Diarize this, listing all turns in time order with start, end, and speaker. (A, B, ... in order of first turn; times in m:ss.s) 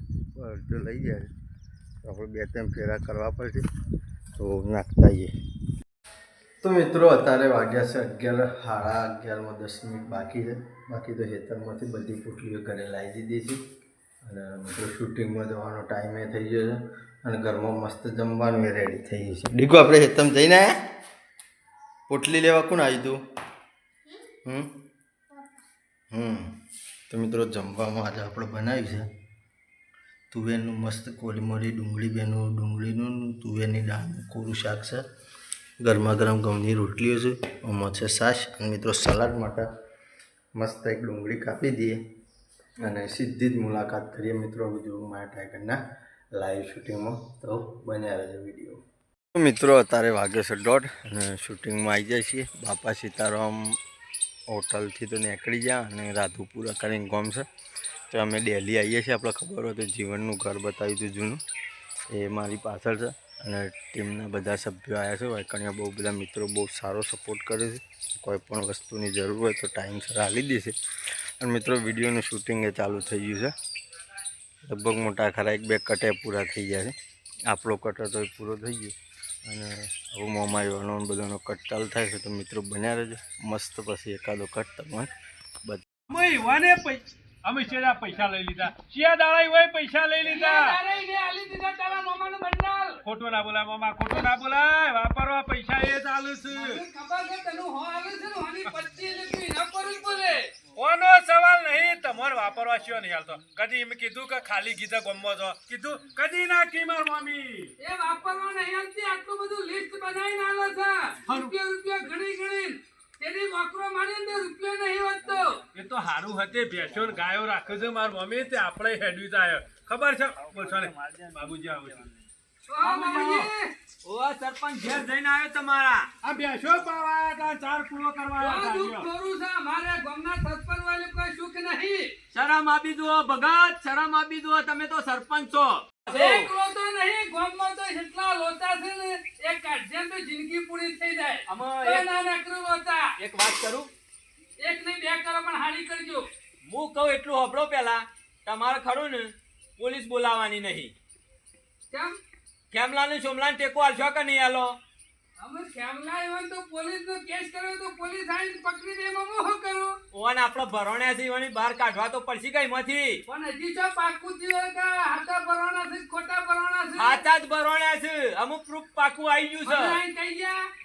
0:00.4-0:01.3 A
0:02.0-0:03.7 A
0:04.4-0:05.3 A
0:06.6-0:13.6 A
0:14.2-0:20.7 A
0:22.1-0:23.2 A
0:24.4-0:24.7 A
0:26.1-0:26.5 A
0:27.1-0:29.1 A
0:30.3-0:35.0 A
0:35.8-0:39.7 A
0:40.6-0:42.0 A
0:42.8-0:45.8 A
0:46.4-0:48.8 A
0:49.4-0:53.6 A
0:54.5-0:57.5 A
0:58.1-1:01.4 A
1:02.1-1:10.8 A
1:11.4-1:13.5 A
1:14.6-1:17.0 A
1:17.5-1:19.0 A
1:19.5-1:25.1 A
1:26.1-1:30.7 B
1:30.2-1:33.0 C
1:33.0-1:36.8 B
1:36.5-1:40.5 C
1:40.8-1:47.7 B
1:47.8-1:55.6 C
1:55.7-2:02.0 B
2:02.7-2:03.7 C
2:02.9-2:03.5 D
2:04.1-2:06.1 D
2:06.2-2:09.0 B
2:08.4-2:12.1 C
2:12.3-2:16.5 D
2:16.1-2:23.1 C
2:21.5-2:22.1 D
2:23.2-2:23.9 D
2:24.6-2:26.3 C
2:26.7-2:30.9 D
2:31.9-2:32.2 C
2:32.7-2:34.8 D
2:35.4-2:40.0 C
2:40.1-2:43.2 D
2:43.3-2:47.3 C
2:47.0-2:50.0 D
2:49.6-2:50.6 C